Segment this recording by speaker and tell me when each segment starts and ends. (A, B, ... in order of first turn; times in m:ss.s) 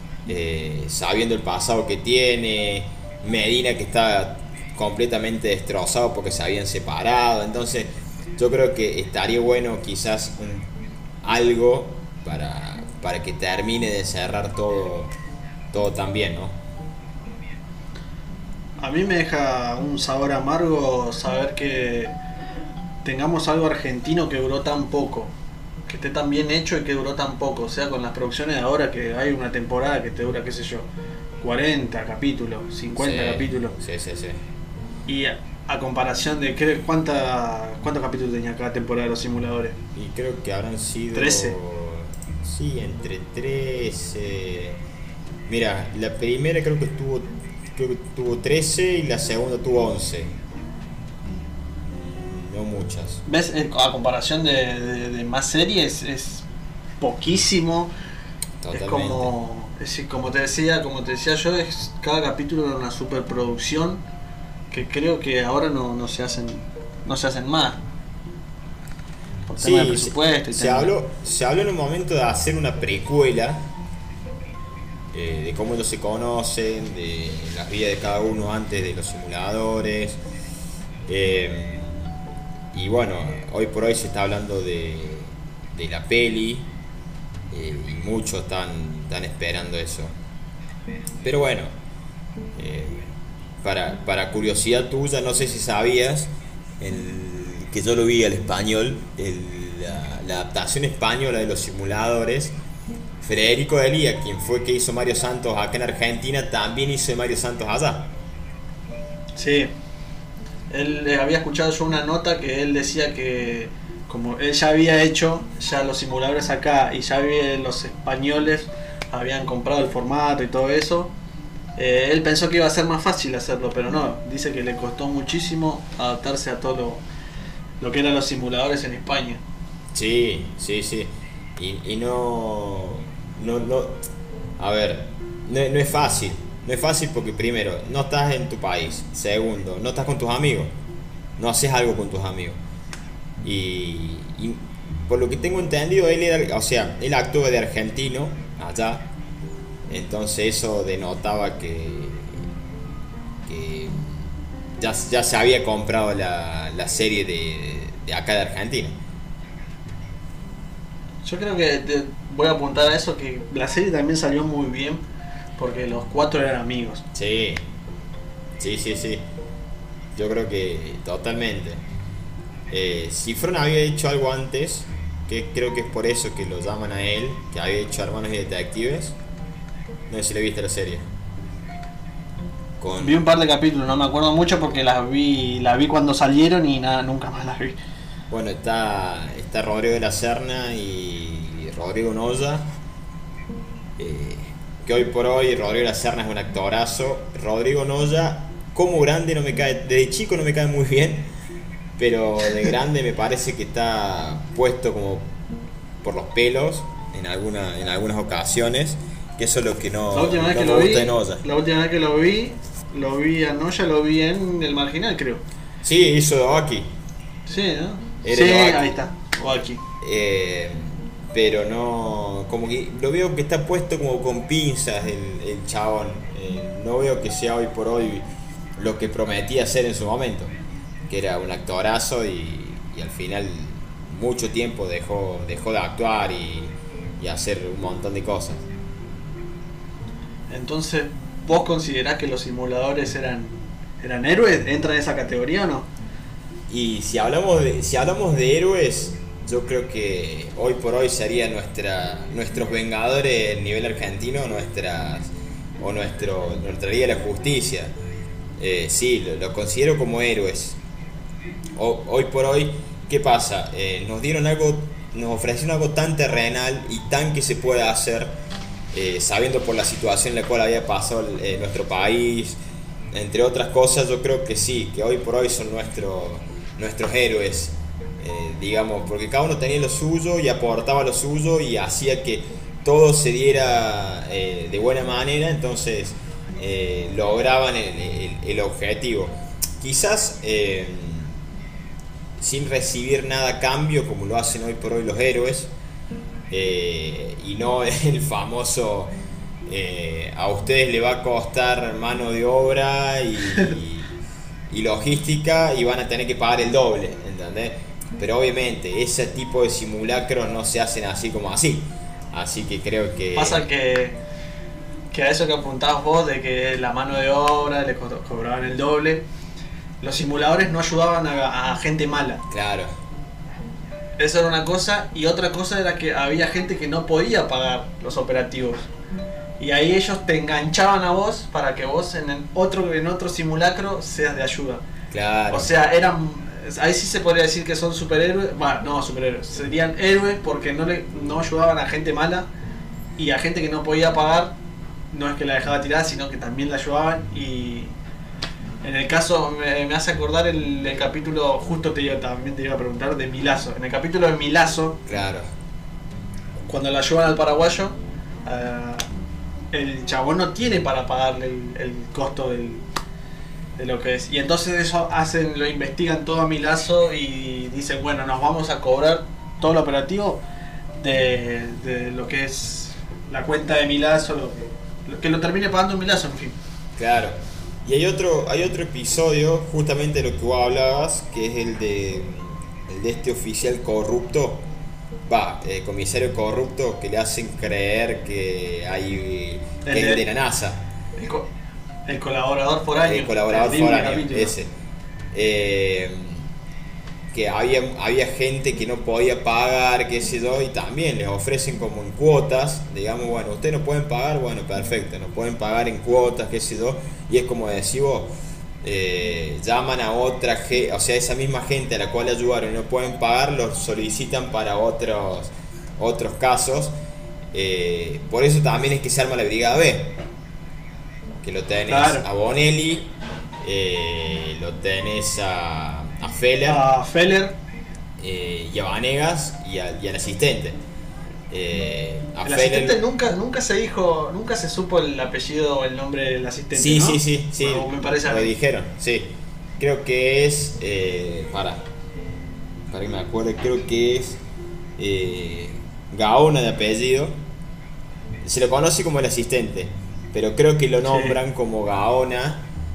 0:00.3-0:10.7 A
0:11.2-0:15.1 A
0:15.7-0:16.6 A
0:18.8-0:22.2 B
0:23.0-0:25.3 B
0:25.9-0:30.9 B
0:31.4-0:33.8 B
0:33.0-0:34.4 A
0:35.1-0:39.8 B
0:40.0-0:44.8 A
0:41.1-0:41.6 B
0:45.5-0:50.4 A
0:51.9-0:53.2 A
0:53.2-0:56.5 B
0:57.0-0:57.9 B
0:58.6-0:59.3 A
0:58.7-1:04.0 B
1:04.7-1:07.8 B
1:09.5-1:10.9 B
1:09.6-1:13.7 A
1:15.1-1:20.2 A
1:21.1-1:22.2 A
1:22.7-1:26.7 A
1:27.5-1:30.1 A
1:31.2-1:31.7 A
1:32.6-1:33.1 A
1:33.6-1:42.5 A
1:43.2-1:48.1 A
1:49.4-1:49.7 B
1:50.7-2:01.1 B
2:01.8-2:07.0 B
2:07.8-2:09.4 B
2:09.9-2:14.0 A
2:14.6-2:20.7 A
2:21.4-2:22.6 A
2:23.4-2:29.1 A
2:29.9-2:32.5 A
2:33.4-2:39.0 A
2:41.2-2:45.0 B
2:45.6-2:47.0 B
2:47.1-2:47.7 A
2:48.6-2:49.3 A
2:50.2-2:51.8 A
2:52.7-2:59.2 A
3:00.1-3:01.1 A
3:02.8-3:03.2 A
3:03.0-3:07.8 B
3:08.3-3:12.7 A
3:14.0-3:21.3 A
3:22.0-3:25.3 A
3:26.0-3:31.4 A
3:30.1-3:35.4 B
3:35.8-3:36.9 A
3:37.5-3:39.8 B
3:38.2-3:39.0 A
3:40.0-3:48.2 A
3:48.8-3:50.5 A
3:51.1-3:58.6 A
4:00.5-4:05.9 B
4:06.7-4:17.9 A
4:18.6-4:20.8 A
4:21.8-4:28.4 A
4:28.9-4:32.6 A
4:33.1-4:51.4 A
4:52.4-4:55.7 A
4:56.5-4:59.1 A
4:59.7-5:04.1 A
5:04.7-5:13.7 A
5:13.4-5:14.2 B
5:15.1-5:19.2 B
5:20.0-5:22.4 B
5:22.5-5:22.9 A
5:24.2-5:28.8 B
5:29.6-5:34.8 B
5:35.1-5:35.7 A
5:35.5-5:42.5 B
5:43.2-5:44.6 B
5:45.1-5:47.9 B
5:48.8-5:55.0 B
5:55.1-5:55.5 A
5:56.7-5:59.1 B
5:59.7-6:02.8 B
6:03.8-6:10.4 B
6:11.0-6:16.6 B
6:17.0-6:24.7 A
6:25.3-6:30.8 A
6:29.8-6:30.2 B
6:31.2-6:31.5 B
6:32.1-6:34.5 B
6:33.0-6:34.7 A
6:35.3-6:36.5 A
6:37.3-6:57.0 A
6:57.5-7:00.2 A
7:01.4-7:03.1 A
7:01.9-7:02.2 B
7:03.6-7:06.8 A
7:06.7-7:07.6 B
7:08.2-7:10.8 A
7:11.5-7:13.0 A
7:12.4-7:18.5 B
7:16.8-7:21.8 A
7:22.9-7:24.4 A
7:25.0-7:27.4 A
7:28.4-7:32.7 A
7:31.1-7:31.4 B